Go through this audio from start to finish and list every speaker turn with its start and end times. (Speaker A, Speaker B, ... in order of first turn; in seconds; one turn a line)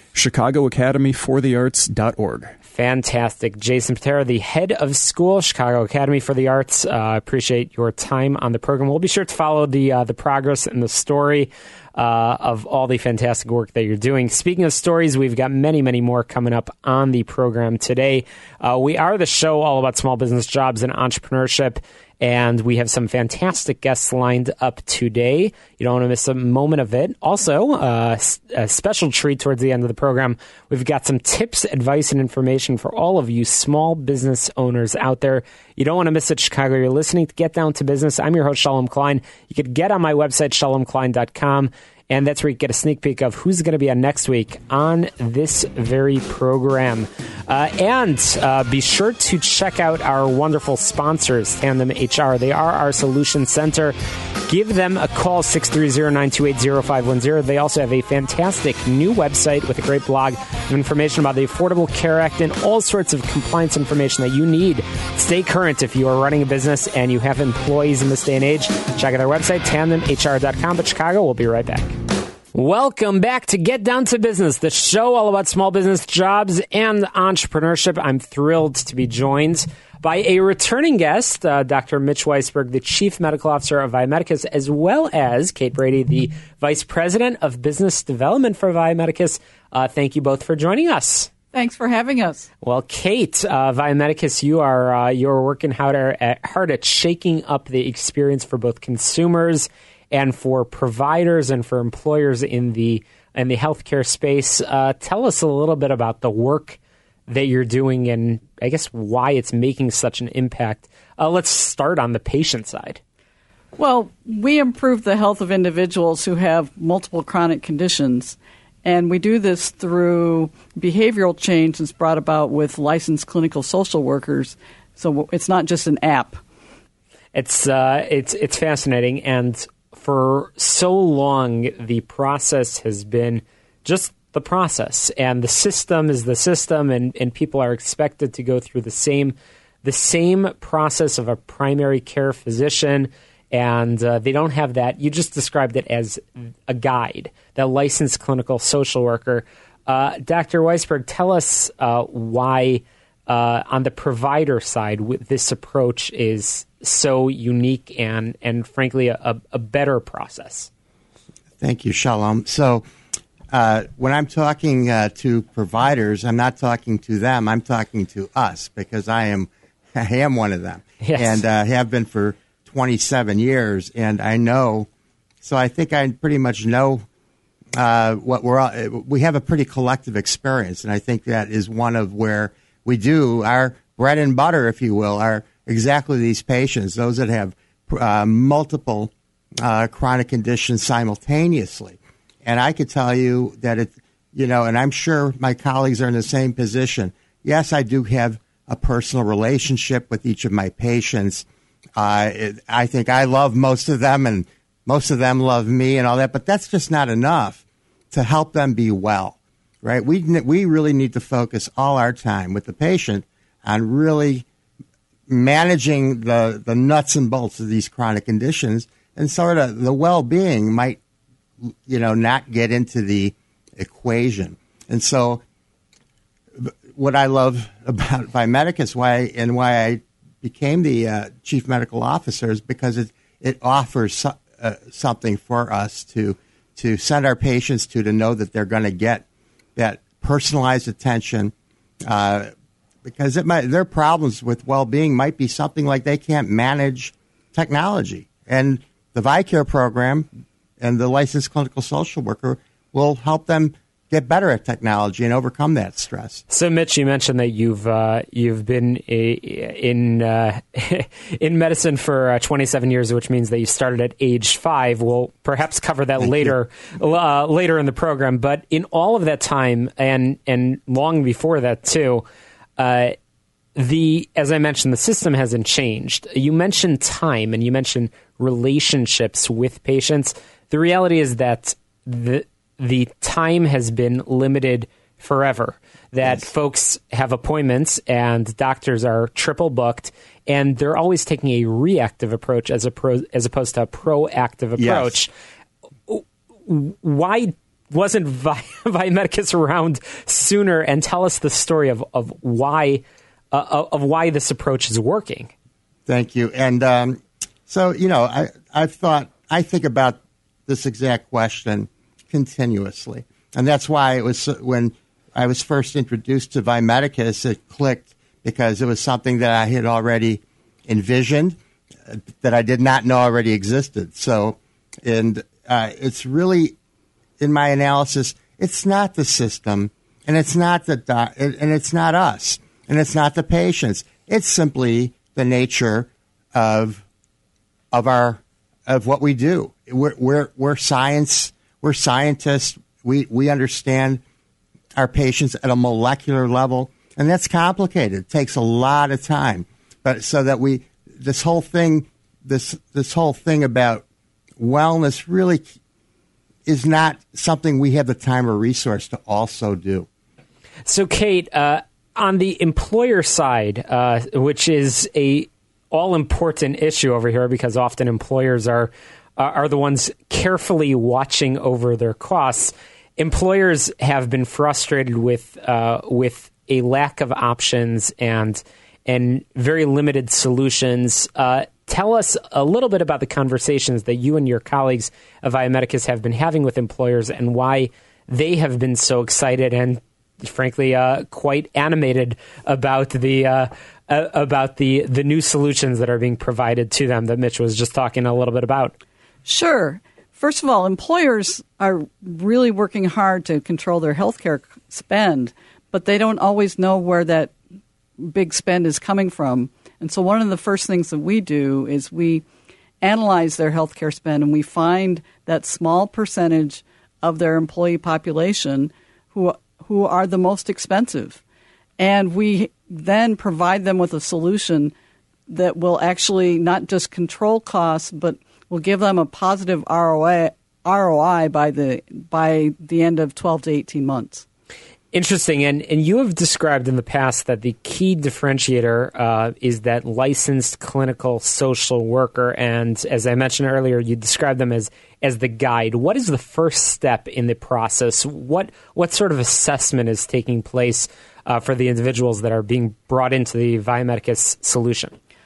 Speaker A: 0.1-2.6
Speaker B: 2.7-54.0
Speaker B: 54.5-71.9
Speaker B: 72.5-91.3
Speaker C: 91.5-92.5
Speaker B: 92.6-113.0
Speaker C: 113.8-126.4
Speaker B: 127.3-160.7
Speaker D: 161.6-162.8
Speaker D: 163.5-174.9
Speaker B: 171.0-171.4
Speaker D: 175.4-177.0
Speaker D: 177.8-189.1
Speaker D: 189.6-201.5
Speaker D: 202.0-214.5
Speaker D: 215.3-221.0
Speaker D: 221.6-225.4
Speaker D: 226.6-239.2
Speaker D: 239.8-242.5
Speaker D: 243.0-250.3
Speaker D: 250.8-256.4
Speaker B: 256.5-272.2
Speaker D: 266.2-266.5
Speaker B: 272.8-273.1
Speaker B: 273.8-295.3
Speaker D: 294.8-295.2
Speaker B: 296.1-305.5
Speaker D: 306.1-326.8
Speaker D: 327.4-337.0
Speaker D: 337.9-344.2
Speaker D: 345.0-354.0
Speaker D: 354.6-355.7
Speaker D: 356.7-360.1
Speaker B: 360.9-398.9
Speaker C: 399.5-407.5
Speaker C: 408.2-412.4
Speaker C: 413.0-421.4
Speaker C: 422.0-424.9
Speaker C: 425.5-434.4
Speaker B: 435.1-455.1